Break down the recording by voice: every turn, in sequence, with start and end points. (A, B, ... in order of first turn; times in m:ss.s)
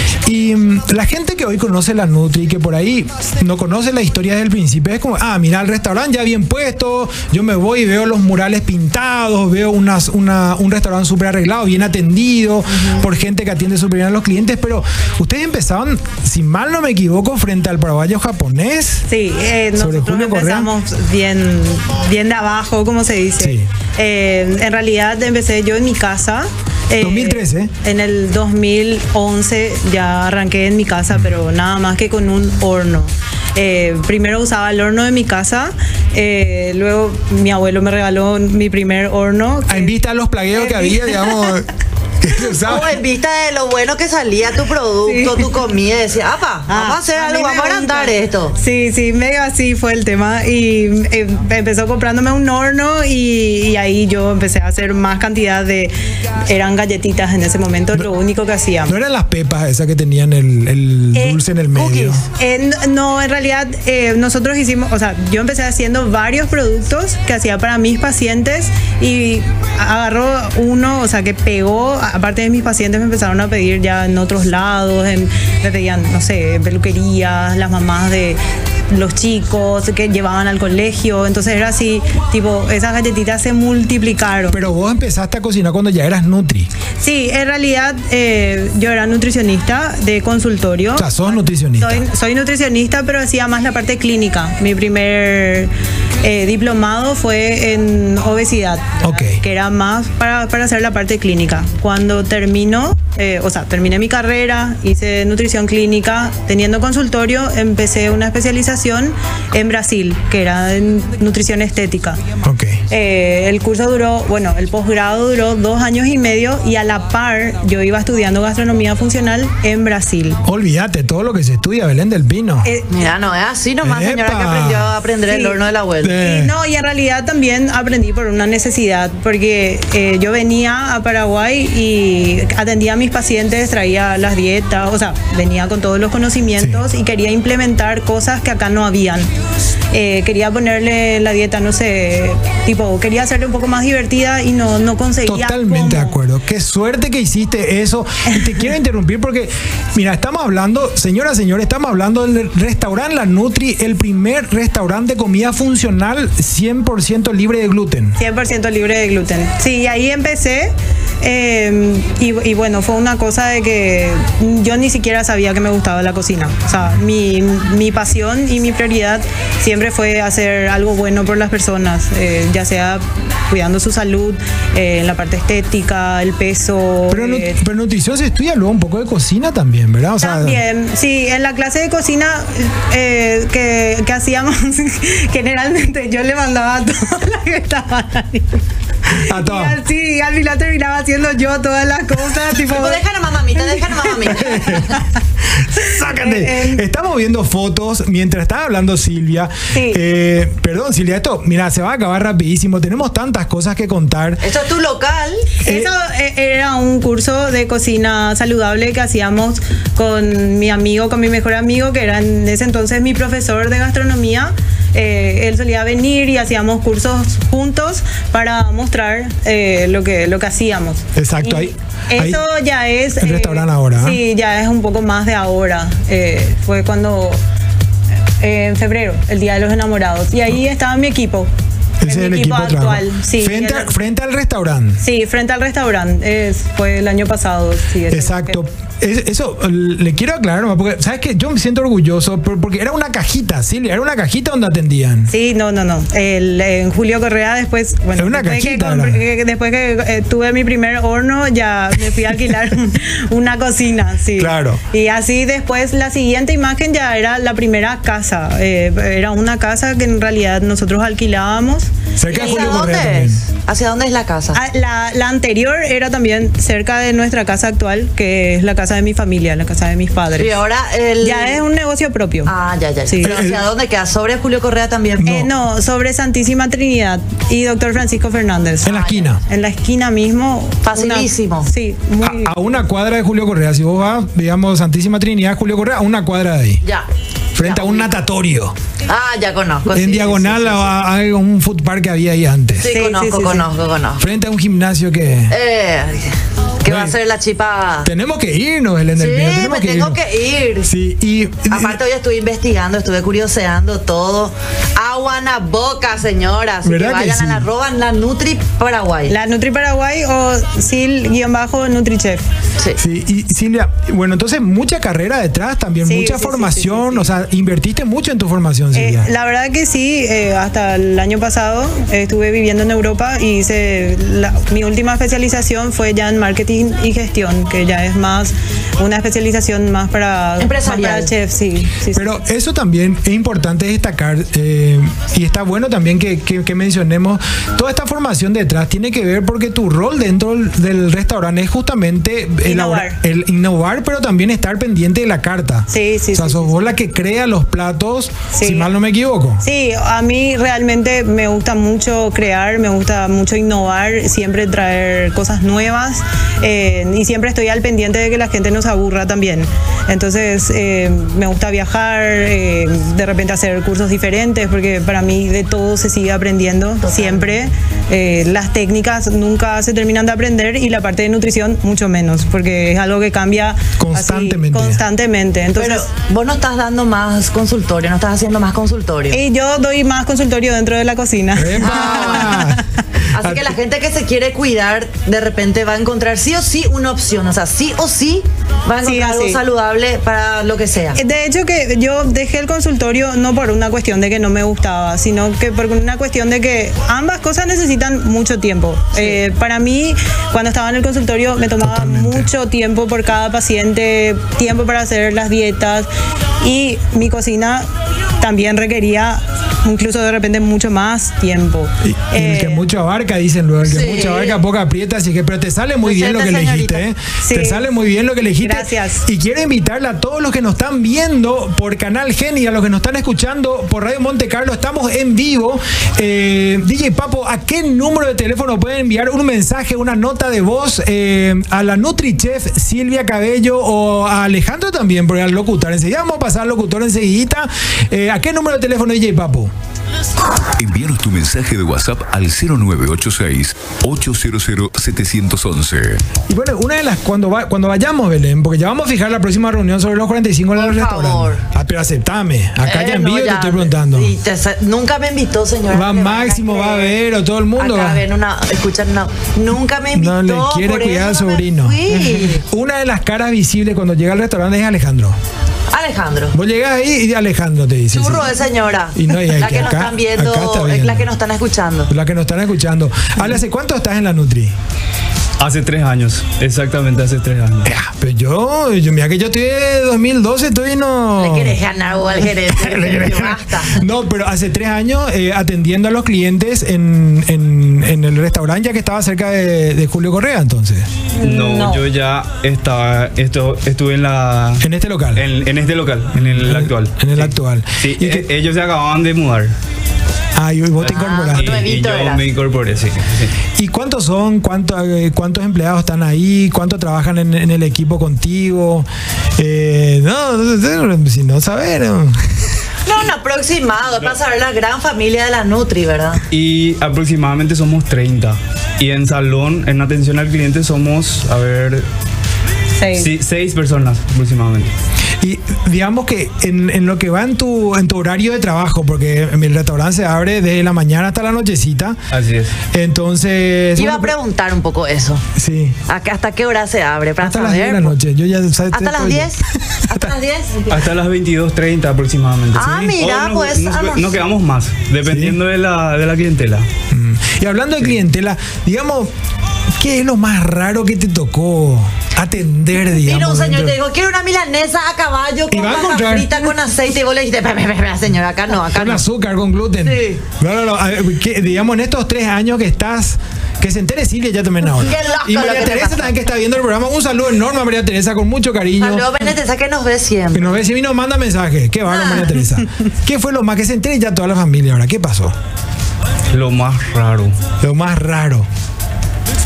0:00.2-0:19.0 A
0:19.1-0:39.9 B
0:19.8-0:20.7 A
0:23.4-0:23.7 A
0:27.0-0:27.7 A
0:39.7-0:41.7 A
0:40.5-0:41.6 B
0:42.2-0:43.0 A
0:42.6-0:48.6 C
0:45.0-0:45.6 B
0:46.7-0:55.9 B
0:56.5-0:59.0 B
0:58.8-1:02.2 A
1:01.7-1:02.2 C
1:02.4-1:24.6 B
1:24.5-1:26.7 A
1:27.0-1:52.2 B
1:31.0-1:32.0 A
1:39.0-1:39.4 A
1:52.4-1:52.8 A
1:52.9-2:00.4 B
2:00.4-2:02.7 A
2:02.6-2:02.9 B
2:02.9-2:06.2 C
2:03.8-2:05.0 A
2:05.3-2:05.6 B
2:06.0-2:06.5 A
2:06.2-2:19.3 B
2:16.6-2:16.8 A
2:19.9-2:26.1 B
2:25.2-2:38.2 A
2:38.2-2:57.6 B
2:57.1-3:00.6 A
3:00.2-3:13.0 B
3:09.1-3:09.8 A
3:12.7-3:14.8 C
3:13.6-3:15.1 B
3:14.4-3:14.9 A
3:15.5-3:24.4 A
3:15.7-3:16.8 B
3:19.7-3:20.0 B
3:24.4-3:25.6 C
3:25.6-3:47.4 B
3:25.6-3:25.9 A
3:41.2-3:42.4 A
3:43.2-3:44.2 A
3:48.4-3:51.5 B
3:52.0-3:55.0 A
3:52.0-3:53.9 B
3:55.0-3:58.6 B
3:58.1-4:05.3 A
4:05.3-4:22.8 B
4:08.2-4:09.2 A
4:14.4-4:14.8 A
4:22.2-4:23.4 A
4:22.3-4:24.6 C
4:24.5-4:30.6 B
4:30.4-4:31.6 C
4:31.2-4:32.5 B
4:32.4-4:35.4 C
4:33.1-4:33.4 B
4:33.2-4:33.6 A
4:35.2-4:35.5 A
4:35.2-4:42.5 B
4:38.8-4:39.4 A
4:38.9-4:39.3 C
4:40.8-4:41.7 C
4:42.2-4:46.8 A
4:47.5-4:48.7 A
4:47.6-4:48.1 C
4:49.1-4:50.8 C
4:49.9-4:52.9 A
4:52.7-4:54.2 C
4:52.9-4:53.7 B
4:54.2-4:55.5 A
4:55.5-4:58.1 C
4:56.8-4:57.2 A
4:58.0-5:00.2 A
4:59.1-5:00.9 C
5:00.8-5:02.0 A
5:01.7-5:09.3 C
5:06.8-5:07.7 A
5:09.3-5:12.4 B
5:13.0-5:19.3 A
5:16.0-5:17.3 B
5:18.9-5:32.3 B
5:30.6-5:31.3 C
5:32.1-5:49.6 A
5:42.6-5:43.2 B
5:45.9-5:46.8 B
5:48.5-5:48.9 B
5:49.6-6:16.0 B
6:07.0-6:07.6 C
6:14.0-6:15.0 A
6:15.8-6:19.4 C
6:19.3-6:22.8 B
6:21.6-6:22.8 A
6:21.8-6:22.6 C
6:23.3-6:31.2 C
6:23.4-6:23.8 A
6:29.0-6:29.6 B
6:31.2-6:46.1 B
6:41.8-6:42.5 A
6:46.6-6:47.9 B
6:48.4-6:52.8 B
6:52.0-7:19.7 A
6:53.8-6:54.6 C
6:56.0-6:57.1 C
6:57.4-6:57.8 B
6:58.6-6:59.2 B
7:20.8-7:26.2 D
7:26.5-7:34.3 A
7:30.7-7:31.6 C
7:32.8-7:37.2 C
7:35.9-7:38.2 A
7:37.8-7:42.6 C
7:40.1-7:45.4 A
7:45.9-7:46.6 C
7:46.5-7:48.5 A
7:48.1-7:52.1 C
7:49.1-7:51.3 A
7:52.1-7:54.7 A
7:55.6-7:57.9 E
7:57.8-8:01.8 A
8:01.4-8:04.0 C
8:02.4-8:11.1 A
8:11.4-8:12.0 B
8:11.4-8:19.7 E
8:14.8-8:15.4 A
8:16.3-8:18.5 A
8:20.6-8:21.8 A
8:21.0-8:23.5 E
8:21.0-8:22.4 C
8:23.8-8:32.6 A
8:33.0-8:36.4 C
8:36.5-8:42.0 E
8:43.0-8:43.3 B
8:43.1-8:44.9 E
8:45.4-8:52.2 A
8:52.3-8:52.7 E
8:52.9-8:54.3 A
8:54.0-8:55.4 C
8:55.6-8:56.0 A
8:56.1-8:58.2 C
8:57.4-9:00.3 A
8:58.9-9:00.9 C
9:00.9-9:06.9 E
9:02.7-9:04.4 C
9:02.8-9:03.1 A
9:05.2-9:05.6 A
9:07.1-9:09.3 A
9:10.0-9:14.0 A
9:13.2-9:19.2 C
9:15.7-9:16.6 A
9:18.9-9:29.3 A
9:20.0-9:20.4 C
9:24.9-9:26.3 C
9:29.0-9:30.8 C
9:30.5-9:35.5 A
9:32.1-9:32.5 C
9:36.5-9:37.6 E
9:37.8-9:38.7 A